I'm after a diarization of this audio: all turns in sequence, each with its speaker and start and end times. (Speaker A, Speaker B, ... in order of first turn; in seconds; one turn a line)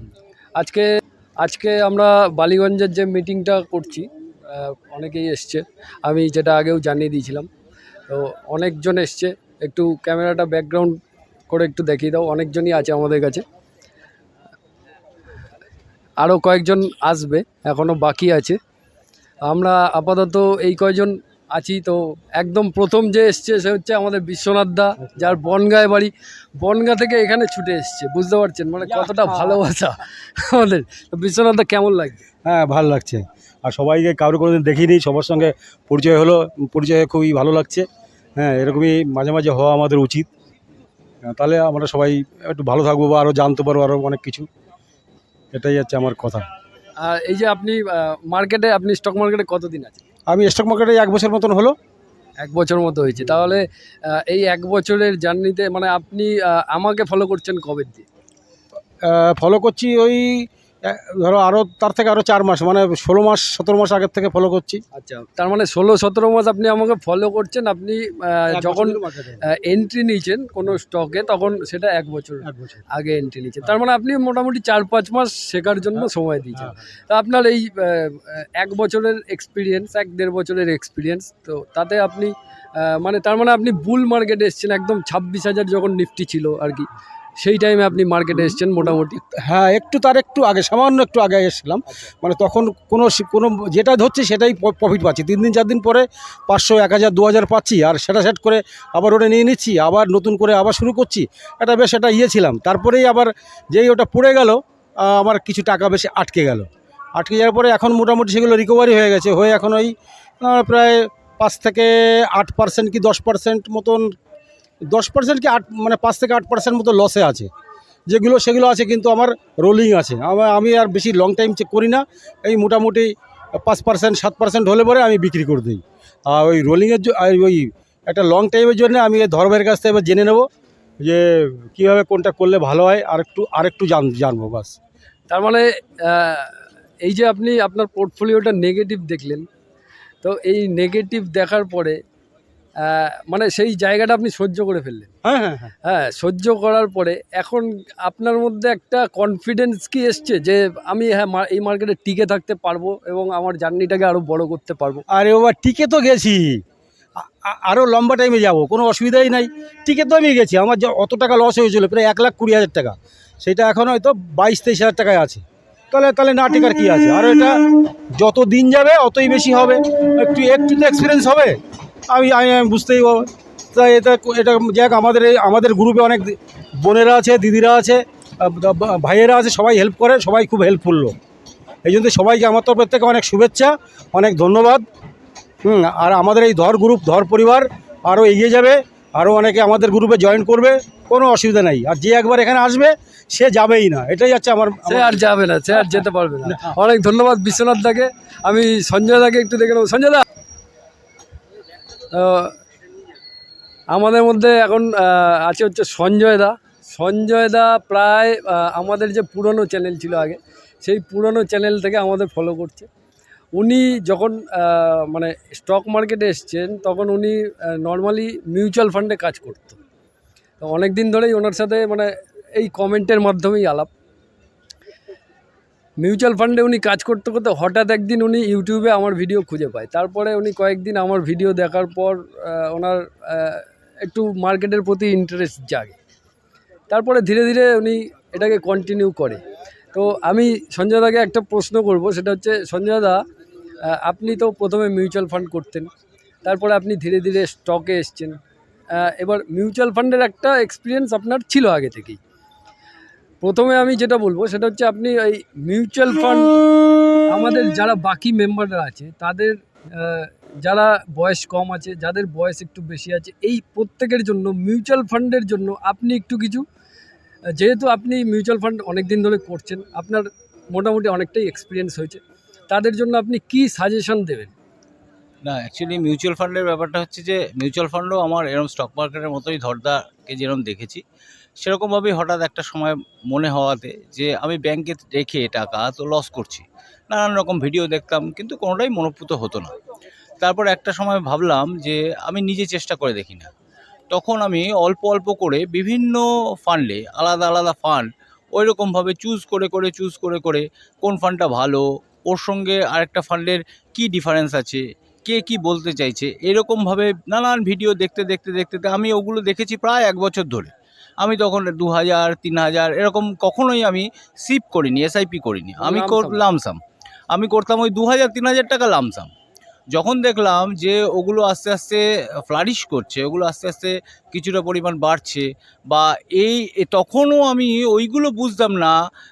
Speaker A: 0.6-0.9
Speaker A: 1.4-7.5
Speaker A: 8.1-11.0
Speaker A: 11.5-13.4
Speaker A: 16.2-18.6
Speaker A: 19.5-32.3
Speaker B: 28.9-29.6
Speaker B: 32.5-37.9
Speaker B: 38.4-40.3
Speaker B: 41.3-44.5
Speaker B: 45.5-46.5
Speaker A: 47.0-50.0
Speaker B: 50.3-51.7
Speaker A: 52.4-58.1
Speaker B: 59.0-64.8
Speaker A: 65.0-86.9
Speaker B: 68.5-69.4
Speaker B: 72.5-72.8
Speaker A: 87.4-89.2
Speaker B: 89.3-114.1
Speaker B: 114.9-117.5
Speaker B: 118.1-130.5
Speaker B: 131.0-134.7
Speaker A: 135.3-139.5
Speaker A: 140.2-142.0
Speaker A: 142.8-145.1
Speaker B: 145.2-145.7
Speaker A: 145.8-155.0
Speaker B: 155.1-156.6
Speaker B: 157.2-167.5
Speaker B: 168.2-171.6
Speaker B: 172.1-181.1
Speaker B: 181.9-184.8
Speaker B: 185.6-195.3
Speaker A: 194.9-200.2
Speaker B: 195.8-196.7
Speaker A: 202.1-202.6
Speaker A: 203.9-212.9
Speaker A: 213.6-219.8
Speaker A: 220.6-223.9
Speaker A: 226.0-236.0
Speaker A: 236.9-239.4
Speaker A: 239.9-243.2
Speaker A: 243.9-245.9
Speaker A: 246.4-248.4
Speaker A: 249.0-252.2
Speaker A: 253.4-256.6
Speaker A: 257.3-266.6
Speaker A: 267.6-274.5
Speaker C: 275.4-281.0
Speaker C: 281.6-289.7
Speaker C: 290.4-293.5
Speaker C: 294.1-310.7
Speaker C: 311.2-316.8
Speaker A: 315.8-316.4
Speaker C: 317.3-319.3
Speaker C: 319.9-328.9